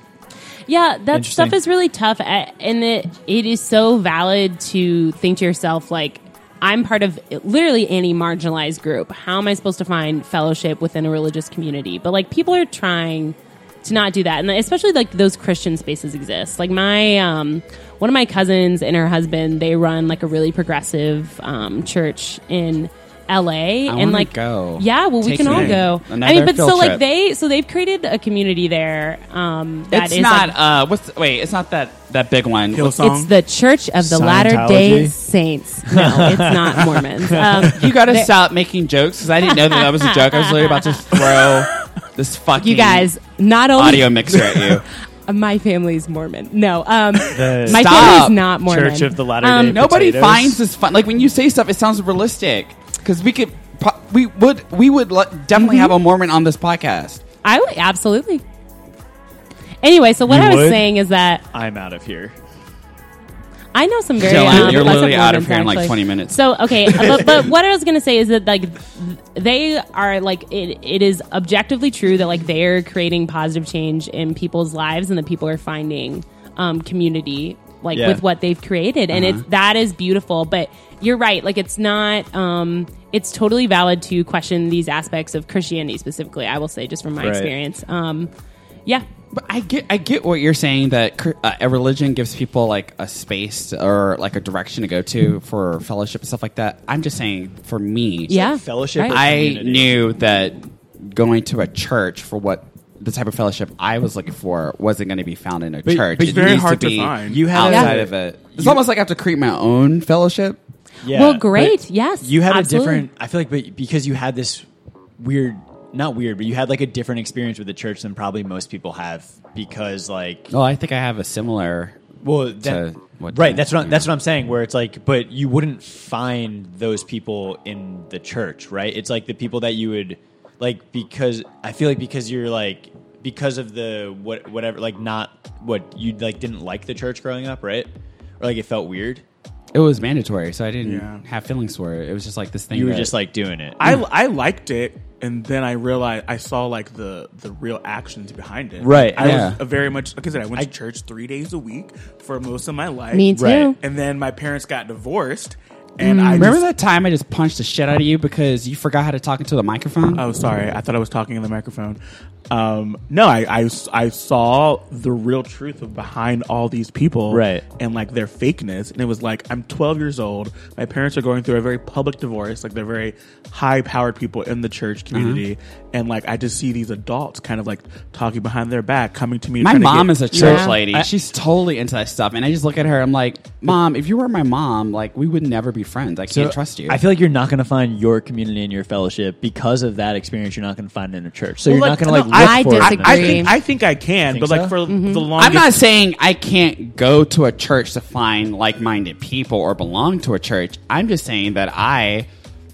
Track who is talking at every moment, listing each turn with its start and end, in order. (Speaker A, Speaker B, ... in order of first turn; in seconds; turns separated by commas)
Speaker A: 0.7-30.5, Speaker B: 1.1-1.6, Speaker C: 23.9-27.0, Speaker D: 25.4-25.7, Speaker C: 29.9-33.0, Speaker D: 32.7-33.3, Speaker A: 33.0-38.3, Speaker B: 34.0-35.1, Speaker B: 35.9-37.8, Speaker C: 37.6-43.1, Speaker A: 39.4-41.0, Speaker D: 41.1-41.6, Speaker A: 42.6-44.7, Speaker C: 43.7-44.8, Speaker A: 45.2-49.9, Speaker B: 47.3-50.6, Speaker C: 47.6-48.4, Speaker C: 49.6-57.2, Speaker A: 55.5-56.0, Speaker A: 57.4-58.4, Speaker A: 59.8-61.4, Speaker B: 60.3-60.9, Speaker B: 61.5-62.3, Speaker A: 63.7-88.3, Speaker C: 64.2-67.5, Speaker B: 77.9-78.2, Speaker C: 79.1-79.4, Speaker B: 87.2-87.5, Speaker C: 89.3-98.4, Speaker A: 98.3-99.2, Speaker B: 98.3-100.0, Speaker C: 99.1-110.6, Speaker B: 105.8-106.7, Speaker D: 106.2-107.4, Speaker B: 107.2-108.8, Speaker A: 107.6-107.9, Speaker B: 111.0-114.6, Speaker A: 111.1-113.0, Speaker B: 115.2-120.5, Speaker C: 120.5-122.0, Speaker B: 122.2-139.2, Speaker C: 122.6-124.1, Speaker C: 139.7-143.1, Speaker D: 140.8-141.2, Speaker B: 142.7-143.8, Speaker D: 143.8-156.6, Speaker B: 148.8-149.5, Speaker C: 149.2-149.6, Speaker A: 153.1-153.8, Speaker B: 153.3-153.7, Speaker A: 156.0-156.5, Speaker C: 156.3-160.2, Speaker D: 160.1-180.3, Speaker B: 167.3-167.6, Speaker C: 175.1-175.4, Speaker C: 179.6-187.0, Speaker A: 180.3-180.8, Speaker B: 180.3-181.1, Speaker B: 186.3-193.5, Speaker D: 191.6-195.8, Speaker A: 192.3-193.5, Speaker B: 194.3-194.7, Speaker A: 194.9-195.3, Speaker C: 195.4-202.3